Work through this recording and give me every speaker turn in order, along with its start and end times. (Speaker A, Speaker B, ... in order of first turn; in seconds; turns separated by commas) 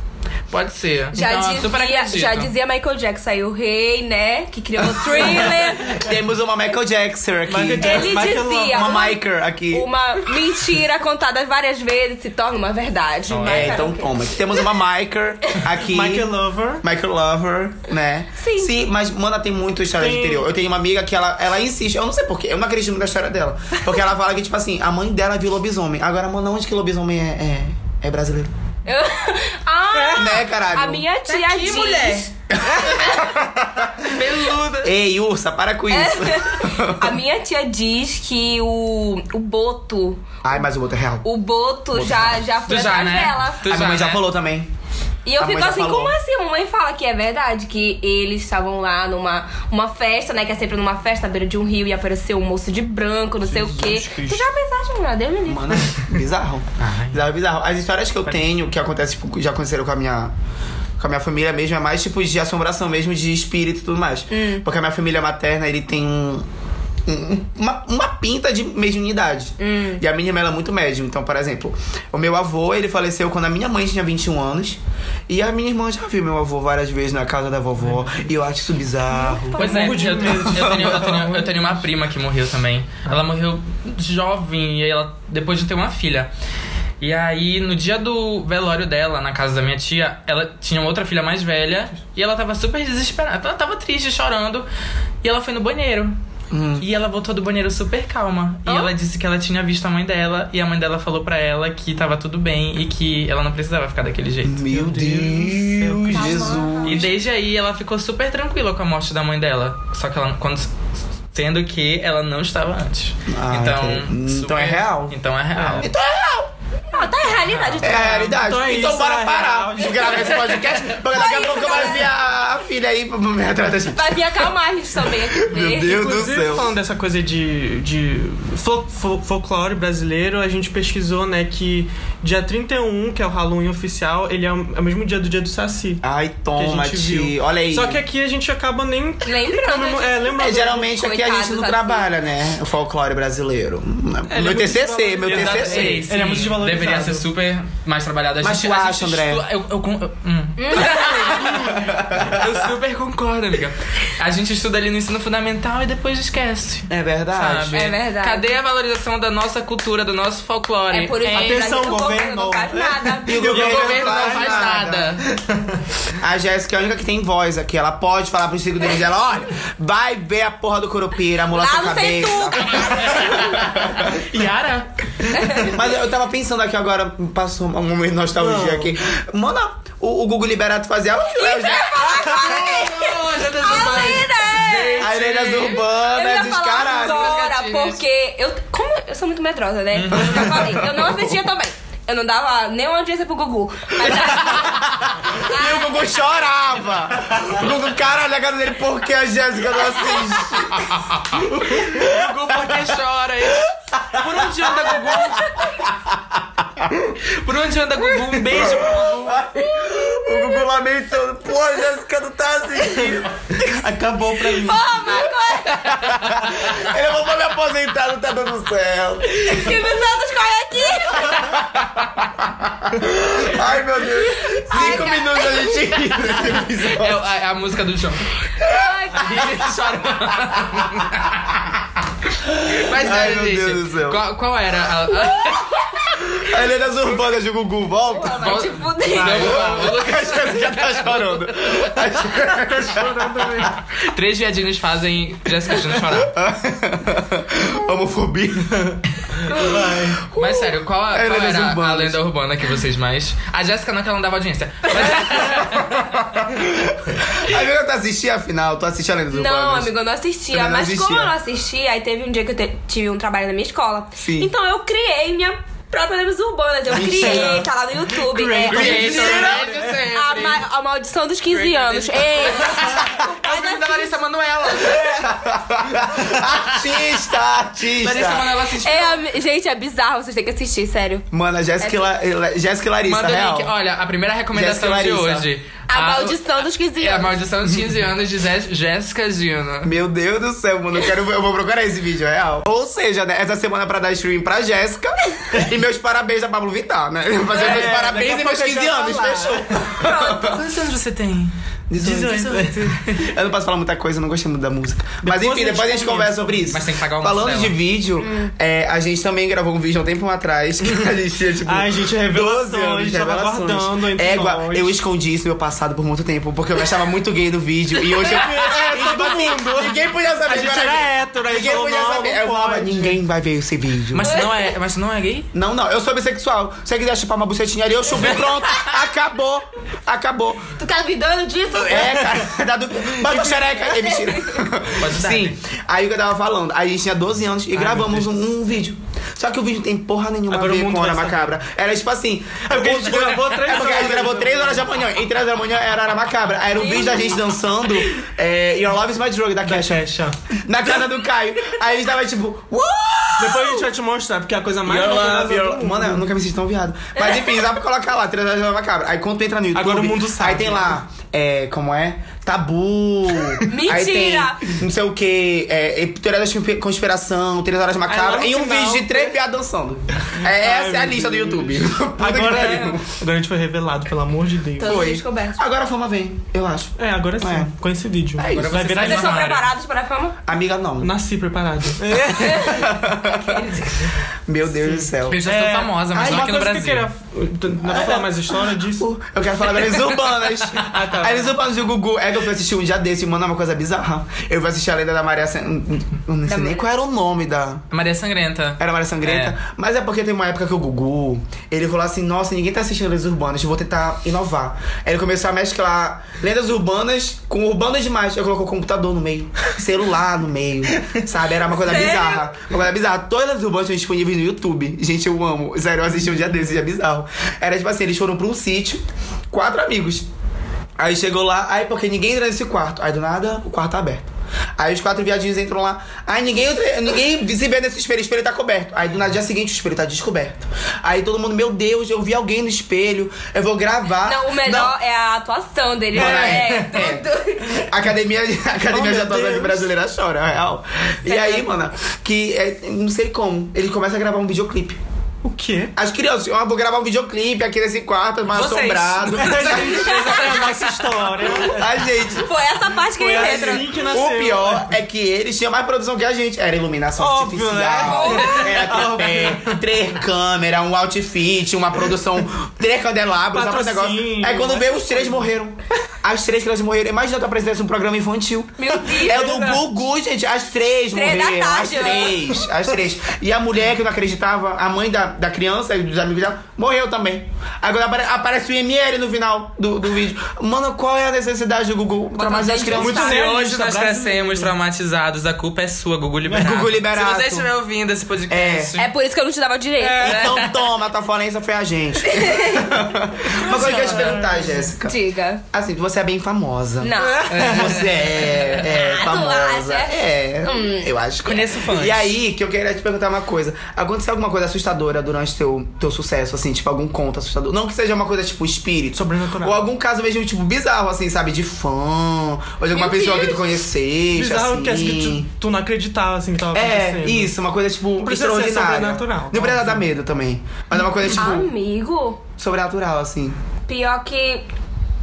Speaker A: 0.5-2.5, Speaker B: 1.1-6.1, Speaker C: 5.1-9.9, Speaker D: 7.5-9.0, Speaker B: 7.8-14.2, Speaker A: 13.3-13.9, Speaker C: 13.4-28.5, Speaker D: 15.8-16.8, Speaker B: 18.4-18.7, Speaker D: 20.0-20.5, Speaker B: 28.9-32.3, Speaker D: 29.9-30.4, Speaker C: 30.1-31.1, Speaker A: 31.3-32.3, Speaker C: 32.6-34.1, Speaker A: 34.0-34.9, Speaker C: 34.8-37.2, Speaker B: 35.9-40.2, Speaker C: 40.4-41.3, Speaker B: 41.2-43.7, Speaker C: 41.9-42.5, Speaker A: 42.7-44.2, Speaker C: 43.7-44.7, Speaker B: 45.2-55.8, Speaker C: 45.4-46.2, Speaker D: 53.5-54.4, Speaker C: 55.5-60.3, Speaker A: 56.8-57.2, Speaker C: 61.0-66.5, Speaker B: 64.3-64.7, Speaker C: 67.1-79.9, Speaker B: 69.6-70.0, Speaker B: 79.1-80.3, Speaker D: 79.6-81.8, Speaker A: 79.6-86.3, Speaker C: 80.5-80.9, Speaker A: 87.0-94.7, Speaker A: 95.2-96.1, Speaker C: 96.5-96.9, Speaker A: 96.8-104.7, Speaker B: 98.7-98.9, Speaker C: 104.5-107.1, Speaker D: 104.7-106.7, Speaker B: 106.1-106.9, Speaker A: 106.8-110.7, Speaker A: 111.3-115.9, Speaker C: 113.3-115.2, Speaker D: 115.6-115.9, Speaker C: 115.7-116.5, Speaker B: 116.9-118.2, Speaker A: 117.3-118.3, Speaker C: 117.8-124.5, Speaker D: 118.1-120.4, Speaker B: 120.5-122.1, Speaker B: 123.9-126.0, Speaker C: 125.0-126.7, Speaker D: 125.7-136.0, Speaker C: 136.0-138.0, Speaker D: 136.6-140.8, Speaker B: 139.2-142.1, Speaker C: 140.4-146.1, Speaker D: 144.3-147.3, Speaker A: 145.2-161.8, Speaker C: 148.4-149.4, Speaker B: 150.6-151.6, Speaker C: 151.6-152.6, Speaker C: 156.9-157.8, Speaker B: 157.7-158.5, Speaker B: 160.9-163.4, Speaker D: 161.2-165.7, Speaker C: 163.2-165.2, Speaker A: 163.4-165.2, Speaker C: 166.2-174.2, Speaker B: 171.5-173.4, Speaker A: 172.8-174.9, Speaker B: 175.3-175.8, Speaker C: 175.6-182.3, Speaker D: 178.4-178.9, Speaker B: 181.4-185.1, Speaker A: 181.7-185.9, Speaker C: 185.0-187.3, Speaker B: 186.1-196.0, Speaker A: 186.8-188.0, Speaker A: 189.9-190.8, Speaker C: 190.1-191.2, Speaker C: 194.0-202.8, Speaker B: 200.0-200.5, Speaker A: 201.2-205.5, Speaker C: 203.7-207.1, Speaker B: 205.4-205.7, Speaker A: 207.3-209.5, Speaker C: 208.3-219.8, Speaker B: 209.7-210.6, Speaker B: 214.5-216.0, Speaker A: 216.1-216.5, Speaker B: 219.3-221.5, Speaker C: 221.2-227.2, Speaker B: 224.5-225.8, Speaker A: 226.8-228.3, Speaker B: 228.6-229.7, Speaker A: 229.1-231.4, Speaker C: 232.4-234.2, Speaker A: 232.7-235.9, Speaker C: 236.3-238.7, Speaker B: 238.1-239.6, Speaker A: 238.4-241.9, Speaker D: 239.1-239.9, Speaker C: 239.2-243.7, Speaker D: 242.6-243.7, Speaker A: 243.9-246.3, Speaker C: 246.1-252.2, Speaker D: 249.5-250.2, Speaker A: 250.3-256.2, Speaker C: 254.9-259.9, Speaker B: 259.3-269.5, Speaker C: 260.5-261.3, Speaker C: 264.2-264.5, Speaker C: 266.9-267.7, Speaker D: 266.9-267.6, Speaker D: 268.2-270.0, Speaker C: 268.6-269.8, Speaker A: 268.7-270.6, Speaker B: 270.1-274.1, Speaker A: 271.5-275.3, Speaker C: 275.0-278.5, Speaker A: 278.0-279.2, Speaker B: 278.8-281.3, Speaker C: 281.3-283.7, Speaker B: 281.8-282.1, Speaker A: 283.1-289.9, Speaker C: 284.5-285.5, Speaker B: 285.9-287.4, Speaker C: 289.8-300.6, Speaker D: 297.5-299.9, Speaker A: 300.0-301.5, Speaker C: 301.9-324.3, Speaker D: 302.0-303.0, Speaker A: 302.1-303.3, Speaker D: 305.2-306.7, Speaker A: 306.7-307.8, Speaker B: 308.2-308.5, Speaker D: 311.6-315.0, Speaker D: 318.2-323.2, Speaker A: 324.1-325.5, Speaker C: 325.5-330.7, Speaker B: 330.8-332.3, Speaker C: 331.8-350.1, Speaker D: 333.2-333.8, Speaker B: 333.9-334.6, Speaker A: 335.0-335.6, Speaker D: 337.7-338.4, Speaker D: 340.5-341.6, Speaker D: 342.7-345.0, Speaker B: 346.8-347.4, Speaker D: 349.6-350.4, Speaker C: 350.6-353.9, Speaker D: 353.4-356.3, Speaker C: 354.8-373.1, Speaker B: 357.1-357.7, Speaker D: 359.7-361.0, Speaker B: 363.7-364.6, Speaker D: 368.1-369.3, Speaker D: 370.3-375.0, Speaker B: 374.8-375.6, Speaker C: 374.8-377.7, Speaker D: 377.0-379.5, Speaker C: 378.4-378.8, Speaker A: 378.5-379.7, Speaker B: 379.0-380.4, Speaker C: 380.4-381.1, Speaker D: 381.0-383.0, Speaker B: 382.4-384.2, Speaker C: 382.5-383.6, Speaker C: 384.5-385.4, Speaker D: 384.8-389.1, Speaker A: 385.3-387.1, Speaker C: 386.1-386.6, Speaker C: 387.8-397.8, Speaker A: 389.9-390.5, Speaker D: 390.8-391.6, Speaker B: 396.5-396.9, Speaker A: 397.9-399.6, Speaker C: 398.8-420.3, Speaker B: 411.8-412.4, Speaker C: 421.0-424.2, Speaker C: 424.8-434.9, Speaker B: 434.2-437.9, Speaker C: 436.1-445.0, Speaker D: 436.1-437.0, Speaker D: 438.9-439.9, Speaker B: 441.3-441.7, Speaker D: 445.4-445.9, Speaker C: 445.9-450.6, Speaker A: 448.5-450.9, Speaker D: 449.3-452.0, Speaker C: 451.6-452.5, Speaker B: 452.4-453.9, Speaker D: 453.0-454.9, Speaker C: 453.4-483.4, Speaker D: 457.2-459.8, Speaker B: 458.0-458.9, Speaker D: 463.5-465.5, Speaker B: 468.8-469.7, Speaker D: 469.0-469.8, Speaker B: 471.1-472.5, Speaker B: 482.4-483.5, Speaker D: 482.9-484.7, Speaker A: 483.2-489.1, Speaker D: 486.5-486.8, Speaker C: 486.5-487.7, Speaker C: 488.5-488.9, Speaker B: 489.0-490.6, Speaker D: 490.0-490.4, Speaker C: 490.2-495.2, Speaker A: 490.2-490.7, Speaker B: 492.2-492.9, Speaker D: 493.6-494.9, Speaker A: 493.6-494.5, Speaker B: 495.0-495.6, Speaker C: 495.7-515.5, Speaker B: 497.0-497.4, Speaker D: 497.2-498.1, Speaker A: 497.5-498.7, Speaker B: 498.8-501.1, Speaker A: 501.4-502.3, Speaker D: 509.1-509.8, Speaker B: 512.9-513.6, Speaker D: 514.3-517.5, Speaker C: 516.7-521.7, Speaker D: 518.2-520.0, Speaker B: 521.4-522.4, Speaker C: 522.6-523.6, Speaker B: 523.9-524.6